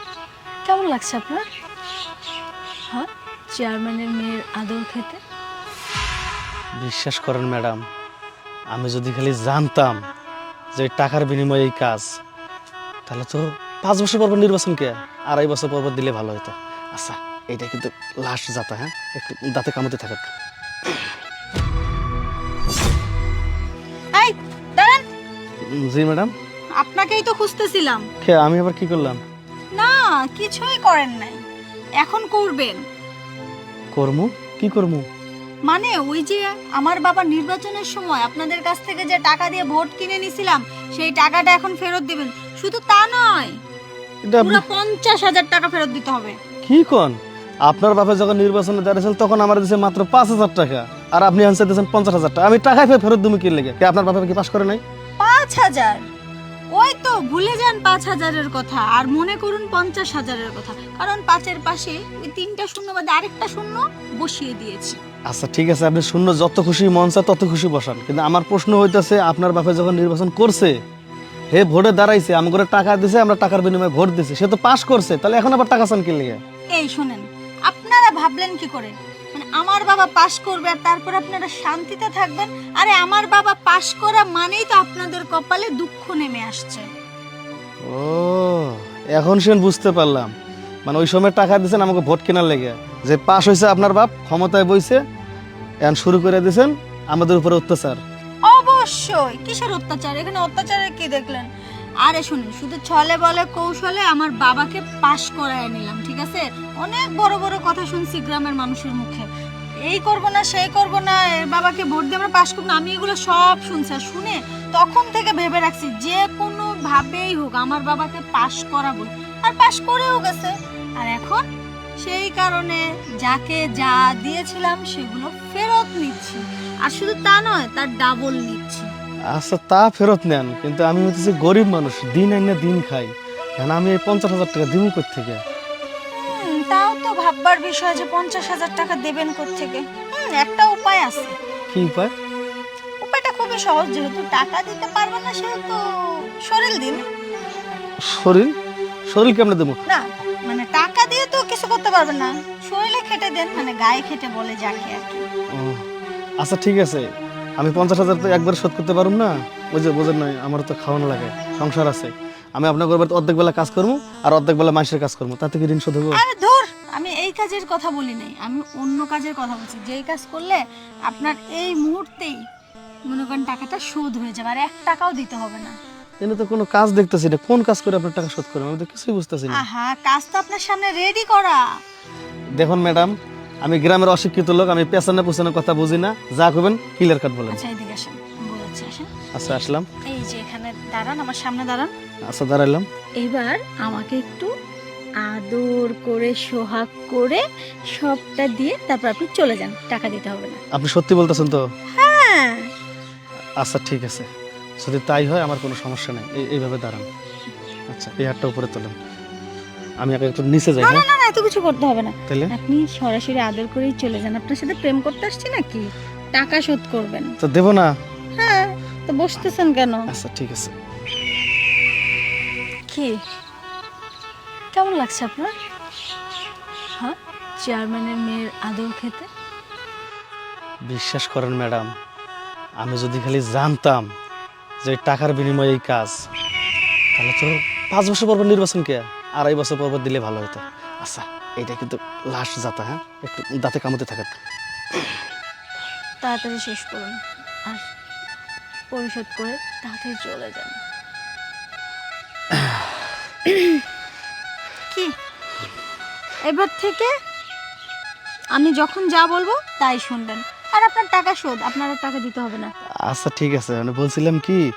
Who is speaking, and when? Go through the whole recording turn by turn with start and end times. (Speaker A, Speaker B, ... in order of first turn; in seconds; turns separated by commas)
Speaker A: 0.7-1.4, Speaker A: 2.9-5.2, Speaker B: 6.8-7.8, Speaker B: 8.7-10.0, Speaker B: 10.8-12.1, Speaker B: 13.1-20.3, Speaker B: 20.9-21.1, Speaker A: 24.1-25.0, Speaker B: 25.8-26.3, Speaker A: 26.8-28.1, Speaker B: 28.2-29.2, Speaker A: 29.8-31.4, Speaker A: 32.0-32.8, Speaker B: 33.9-35.1, Speaker A: 35.7-43.6, Speaker B: 44.2-44.6, Speaker A: 44.4-46.4, Speaker B: 46.6-54.8, Speaker A: 55.2-56.1, Speaker A: 56.7-65.0, Speaker B: 65.3-70.8, Speaker B: 71.5-76.4, Speaker A: 76.7-86.9, Speaker B: 87.9-90.3, Speaker B: 90.8-95.0, Speaker B: 95.8-98.0, Speaker A: 98.5-101.5, Speaker A: 102.0-109.3, Speaker A: 109.9-121.5, Speaker A: 122.0-128.9, Speaker B: 129.3-135.4, Speaker A: 136.3-141.3, Speaker B: 141.7-142.1, Speaker A: 143.0-145.8, Speaker A: 146.4-147.0, Speaker B: 148.0-148.5, Speaker B: 149.1-149.8, Speaker A: 149.9-155.2, Speaker B: 155.5-155.8, Speaker B: 156.4-157.1, Speaker B: 157.6-166.2, Speaker A: 166.1-172.4, Speaker A: 173.1-175.8, Speaker B: 176.2-179.6, Speaker A: 179.5-181.6, Speaker B: 182.6-187.6, Speaker A: 187.5-189.1, Speaker B: 189.3-189.9, Speaker A: 190.0-191.9, Speaker B: 192.3-192.9, Speaker A: 193.2-194.5, Speaker A: 195.2-200.6, Speaker B: 200.7-201.6, Speaker A: 202.0-202.7, Speaker B: 203.6-204.3, Speaker B: 204.8-207.1, Speaker B: 207.9-209.0, Speaker B: 210.0-211.1, Speaker A: 210.8-217.3, Speaker B: 217.4-217.9, Speaker A: 218.4-220.1, Speaker B: 220.1-220.7, Speaker A: 222.9-223.2, Speaker A: 224.7-225.5, Speaker A: 227.0-229.3, Speaker B: 230.9-231.9, Speaker B: 232.8-234.1, Speaker B: 234.8-236.2, Speaker B: 237.2-244.4, Speaker B: 244.9-245.2, Speaker A: 246.2-247.9, Speaker A: 248.9-250.8, Speaker A: 256.4-257.1, Speaker A: 258.5-262.7, Speaker B: 263.1-264.6